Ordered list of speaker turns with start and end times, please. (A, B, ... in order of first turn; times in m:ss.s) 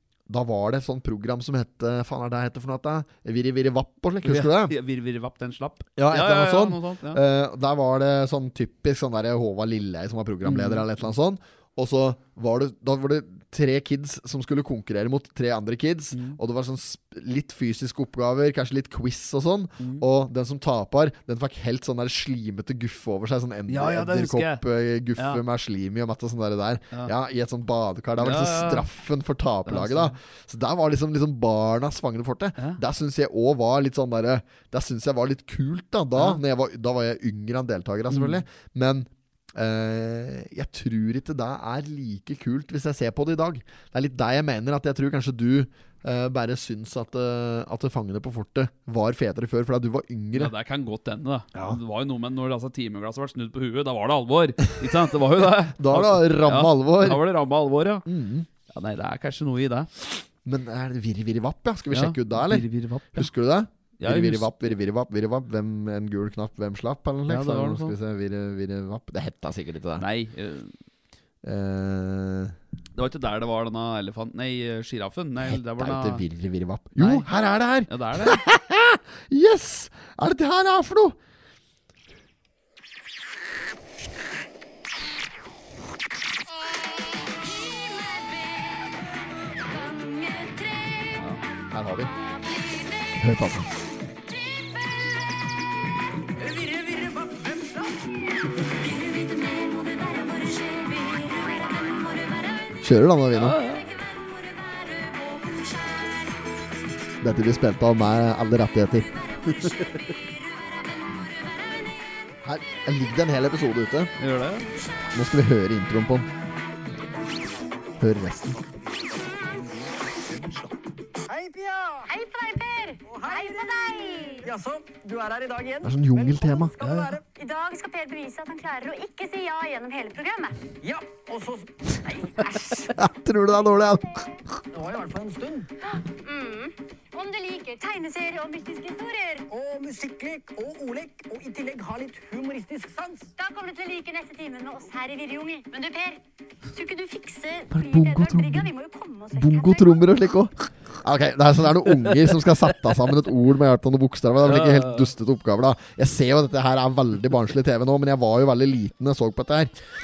0:00.3-0:04.7 A
0:04.2-0:07.2 B
0:06.0-0:50.5 A
0:10.4-0:10.9 B
0:16.1-0:16.4 B
0:19.8-0:20.0 B
0:23.7-0:24.6 B
0:25.2-0:25.4 B
0:28.2-0:28.9 B
0:29.6-0:30.2 B
0:36.2-0:36.4 B
0:38.1-0:38.4 B
0:50.3-0:58.0 B
0:51.5-0:51.8 A
0:55.8-0:57.2 A
0:58.0-0:58.5 A
0:58.7-0:59.9 B
1:00.4-1:10.0 A
1:01.9-1:03.3 B
1:04.0-1:04.5 B
1:07.3-1:08.0 B
1:10.0-1:10.7 B
1:11.4-1:12.5 A
1:13.0-1:16.2 B
1:15.4-1:21.2 A
1:17.0-1:17.3 B
1:17.8-1:18.4 B
1:27.4-1:28.8 C
1:29.6-1:31.3 C
1:31.7-1:32.1 A
1:32.0-1:33.2 C
1:33.2-1:33.7 A
1:34.4-1:35.1 C
1:36.4-1:37.9 C
1:38.4-1:42.8 C
1:42.8-1:43.6 A
1:43.3-1:43.8 B
1:43.6-1:46.4 C
1:47.2-1:49.1 A
1:49.4-1:52.0 C
1:52.4-1:54.1 A
1:54.2-1:54.7 B
1:55.1-1:56.3 A
1:58.0-1:58.6 A
1:59.6-1:59.8 B
2:01.3-2:02.1 D
2:02.1-2:04.5 C
2:03.0-2:07.2 D
2:05.8-2:06.8 A
2:06.8-2:10.6 C
2:10.8-2:11.8 D
2:12.0-2:14.0 C
2:12.9-2:14.2 A
2:14.7-2:15.7 D
2:15.8-2:19.4 C
2:19.5-2:23.3 D
2:23.4-2:26.2 C
2:26.7-2:30.0 C
2:27.7-2:28.7 A
2:29.3-2:39.8 A
2:34.4-2:35.1 B